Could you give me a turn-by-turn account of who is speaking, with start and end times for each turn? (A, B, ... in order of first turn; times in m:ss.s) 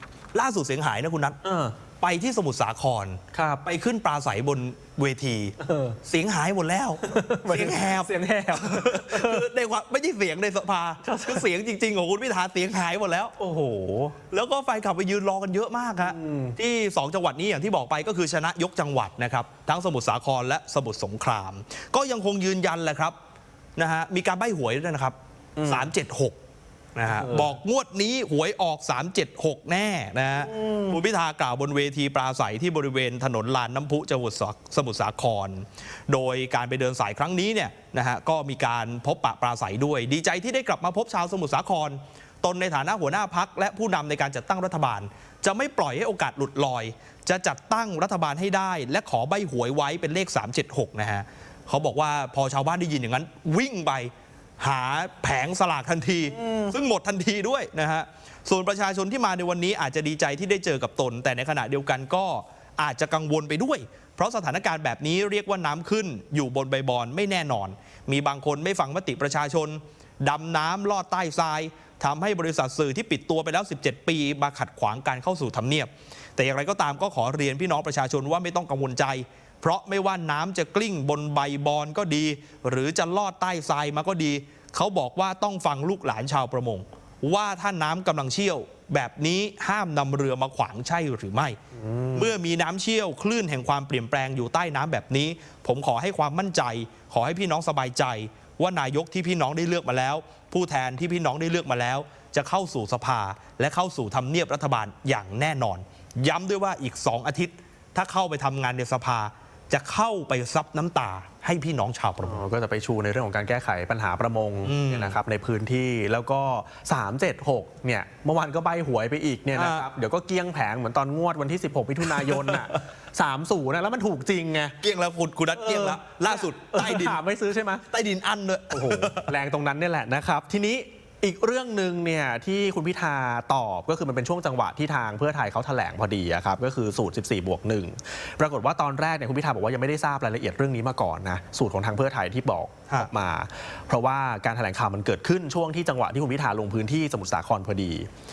0:00.3-0:01.4 A
0:01.4-0:01.8 B
0:02.0-0:13.3 A
0:03.3-0:03.6 B
0:05.6-0:06.0 B
0:07.0-0:09.4 B
0:11.0-0:11.4 B
0:13.4-0:14.2 B
0:14.3-0:23.2 A
0:16.0-0:16.6 B
0:23.8-0:26.4 A
0:25.6-0:25.9 B
0:26.9-1:31.6 A
0:27.1-0:27.5 B
0:30.4-0:31.0 B
0:56.3-0:56.7 B
1:31.8-1:32.3 B
1:32.1-1:52.4 A
1:52.2-2:04.8 B
1:54.6-1:55.2 A
1:59.5-1:59.8 A
2:02.1-2:02.6 A
2:04.8-2:07.2 A
2:05.5-2:07.8 B
2:07.9-2:09.3 A
2:08.7-2:28.1 B